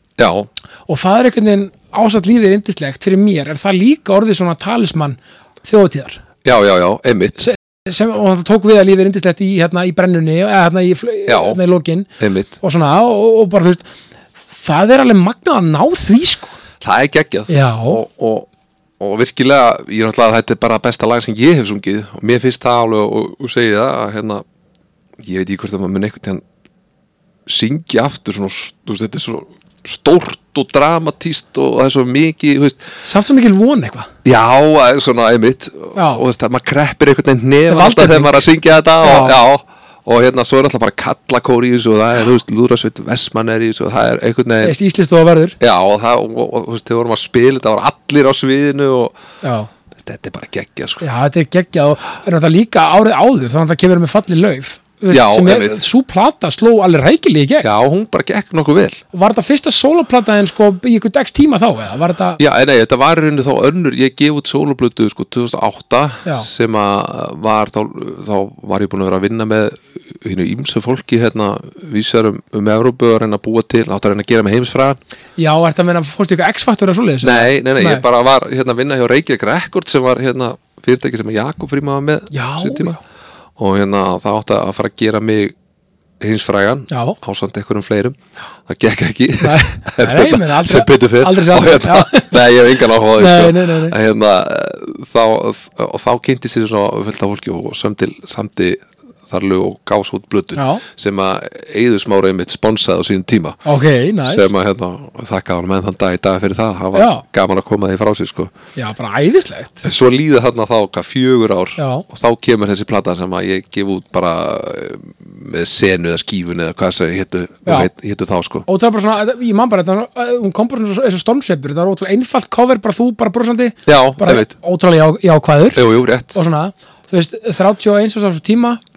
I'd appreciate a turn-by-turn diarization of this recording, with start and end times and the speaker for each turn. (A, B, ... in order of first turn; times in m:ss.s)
0:00.2-0:00.5 A
0:00.9-0:06.2 B
0:06.4-0:07.4 A
0:07.4-0:13.8 B
0:11.3-0:11.6 A
0:12.2-0:12.6 A
0:14.5-0:16.6 B
0:16.8-0:18.5 A
0:17.5-0:18.0 B
0:19.0-0:24.4 A
0:25.2-0:26.4 A
0:27.4-0:32.8 A
0:33.0-0:34.1 B
0:34.2-0:44.7 A
0:35.9-0:36.2 B
0:37.7-0:38.4 B
0:39.0-0:39.4 B
0:44.6-0:45.6 B
0:45.6-0:49.1 A
0:49.4-0:49.7 B
0:50.0-0:51.0 A
0:51.0-0:57.7 B
0:55.1-0:55.8 A
0:57.6-0:59.0 A
0:59.1-1:02.4 B
1:02.4-1:15.0 A
1:15.4-1:18.0 B
1:17.2-1:23.0 A
1:22.3-1:23.0 B
1:23.6-1:25.5 A
1:26.2-1:43.6 A
1:26.9-1:27.2 B
1:29.4-1:32.4 B
1:33.2-1:34.0 B
1:40.5-1:40.8 B
1:43.6-1:44.5 B
1:44.3-1:48.5 A
1:46.9-1:47.2 B
1:48.8-1:49.8 B
1:49.8-1:58.6 A
1:51.8-1:52.0 B
1:58.7-2:08.8 B
2:03.8-2:04.5 A
2:05.7-2:06.4 A